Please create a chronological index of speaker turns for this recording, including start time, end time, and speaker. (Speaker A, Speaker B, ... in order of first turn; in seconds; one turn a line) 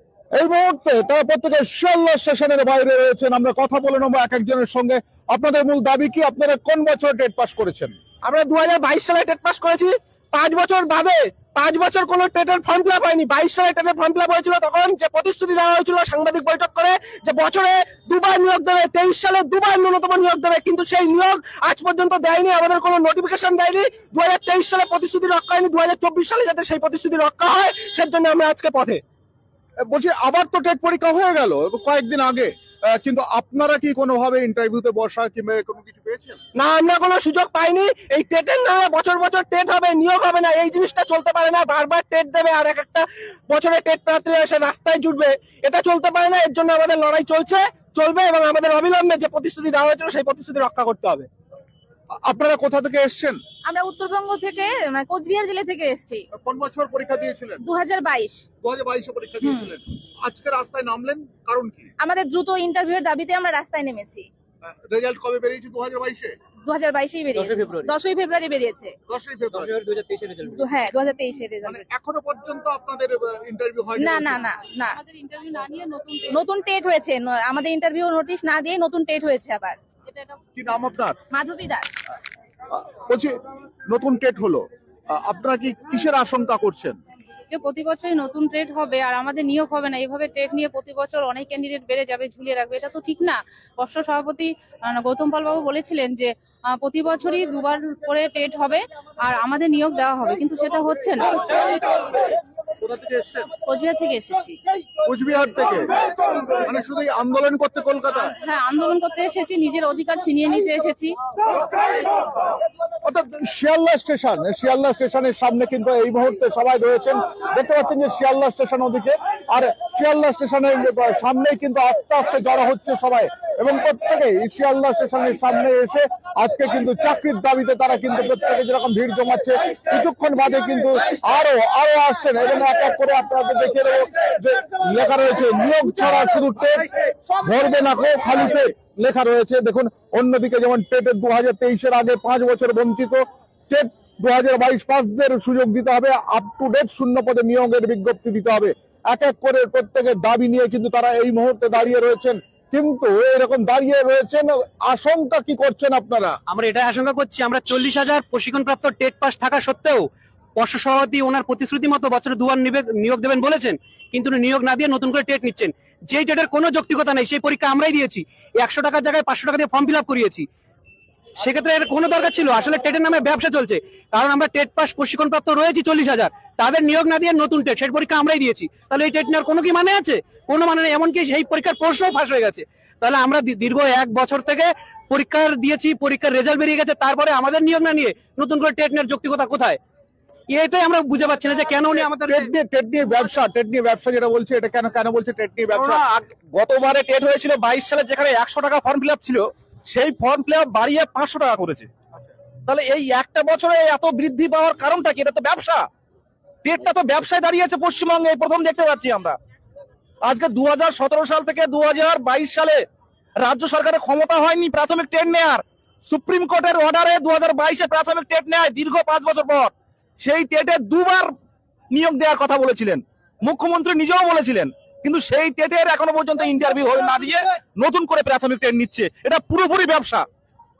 Speaker A: 0.3-7.9
Speaker B: 8.2-29.0
Speaker A: 29.8-36.4
Speaker B: 36.5-51.3
Speaker A: 52.2-53.4
Speaker C: 53.7-56.2
Speaker A: 56.3-57.6
Speaker C: 57.6-58.5
Speaker A: 58.6-61.9
Speaker C: 59.4-59.7
Speaker C: 62.0-64.3
Speaker A: 64.9-66.3
Speaker C: 66.7-68.9
Speaker D: 67.3-67.9
Speaker A: 69.1-69.7
Speaker D: 69.5-70.6
Speaker C: 70.6-71.8
Speaker A: 71.6-74.4
Speaker C: 74.0-75.0
Speaker E: 75.0-76.3
Speaker C: 76.3-79.8
Speaker A: 80.6-81.2
Speaker C: 81.3-81.9
Speaker A: 83.1-83.3
Speaker A: 83.9-87.0
Speaker E: 87.5-101.7
Speaker A: 102.8-103.5
Speaker E: 103.7-104.6
Speaker A: 105.0-105.9
Speaker A: 106.6-108.3
Speaker E: 108.4-111.2
Speaker A: 113.0-136.9
Speaker A: 137.4-156.4
Speaker D: 156.5-170.4
Speaker D: 171.4-189.8
Speaker D: 190.5-192.5
Speaker A: 192.3-196.0
Speaker F: 195.7-201.9
Speaker F: 202.7-205.8
Speaker F: 206.6-209.4
Speaker F: 210.2-212.8
Speaker F: 213.4-221.3
Speaker F: 221.9-230.2